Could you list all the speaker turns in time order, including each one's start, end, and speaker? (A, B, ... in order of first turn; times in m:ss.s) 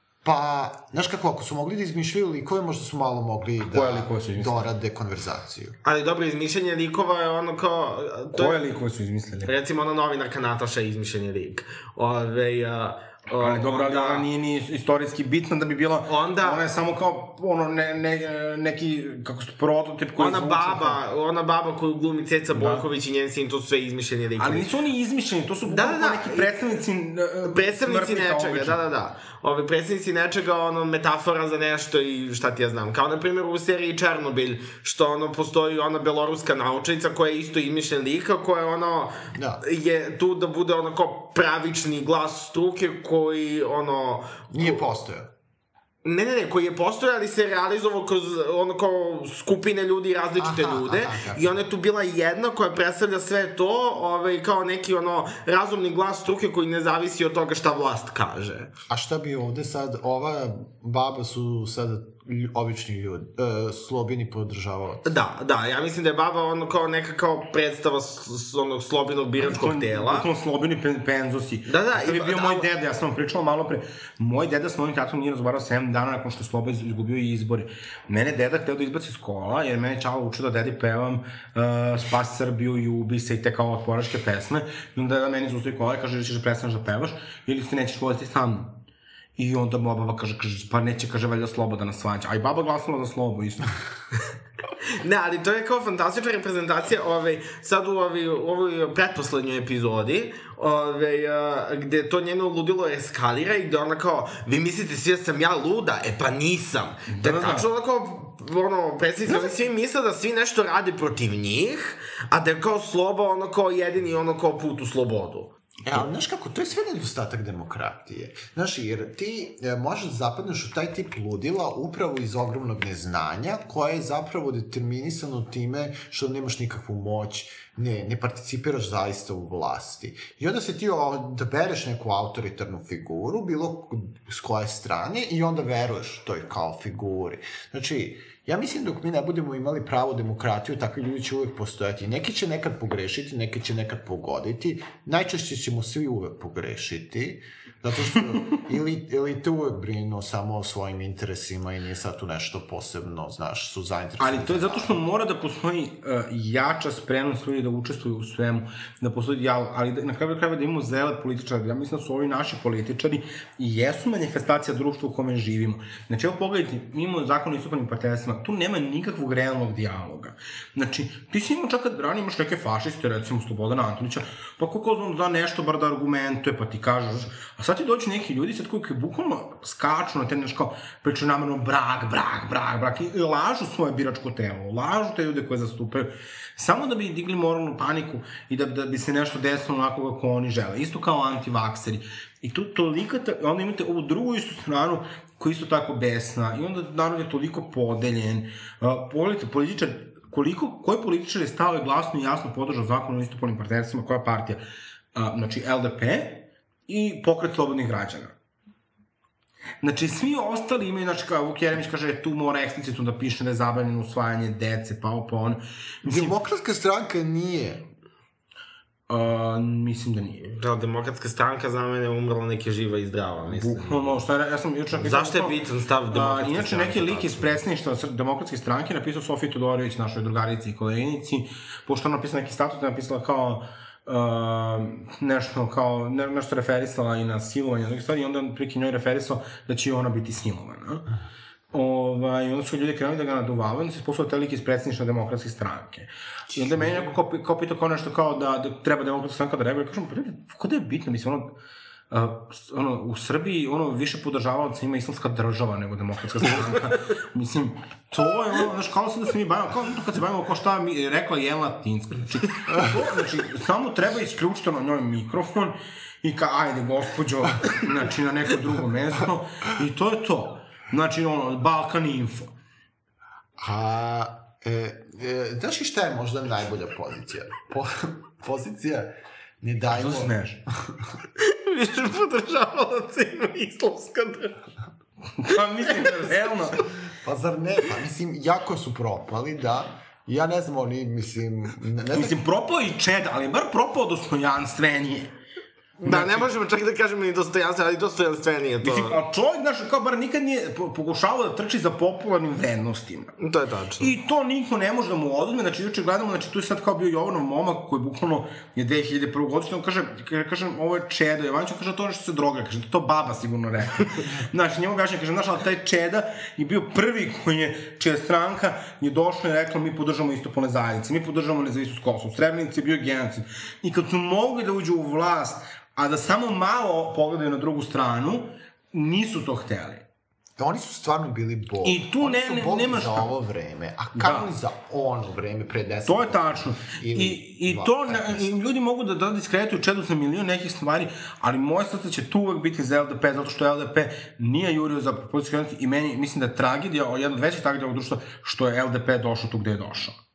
0:00.2-0:05.8 A
0:03.6-0:04.7 B
0:05.8-0:08.6 C
0:08.3-0:09.5 B
0:09.4-0:14.2 C
0:13.3-0:21.0 B
0:16.1-0:16.6 C
0:20.2-0:24.7 C
0:22.5-0:22.8 B
0:24.4-0:28.8 B
0:25.6-0:26.6 C
0:27.4-0:44.8 C
0:39.3-0:39.6 A
0:44.5-0:45.3 A
0:46.0-0:58.7 C
0:50.4-0:51.5 A
0:58.9-1:05.1 A
1:05.0-1:10.3 C
1:09.4-1:28.8 B
1:11.6-1:12.6 C
1:29.4-1:33.7 B
1:35.0-1:55.5 C
1:47.1-1:47.7 B
1:55.8-2:35.0 A
2:34.2-3:24.6 B
3:25.1-3:28.3 B
3:29.8-3:36.3 B
3:36.0-3:37.9 A
3:39.1-3:40.5 B
3:40.5-3:44.2 C
3:43.5-3:45.5 B
3:44.9-3:47.6 C
3:46.1-4:01.0 B
4:01.7-4:11.6 B
4:06.6-4:07.1 A
4:12.1-4:32.5 B
4:33.6-4:39.1 A
4:39.6-4:40.3 A
4:39.9-4:40.6 B
4:41.4-4:44.6 C
4:45.4-4:46.8 B
4:47.2-4:52.4 A
4:52.1-4:55.3 B
4:56.0-4:59.2 C
4:56.0-4:56.5 B
4:58.8-5:03.3 B
5:03.4-5:04.1 C
5:04.0-5:30.0 B
5:30.6-5:38.4 A
5:31.8-5:33.3 B
5:34.2-5:34.5 B
5:36.0-5:50.2 B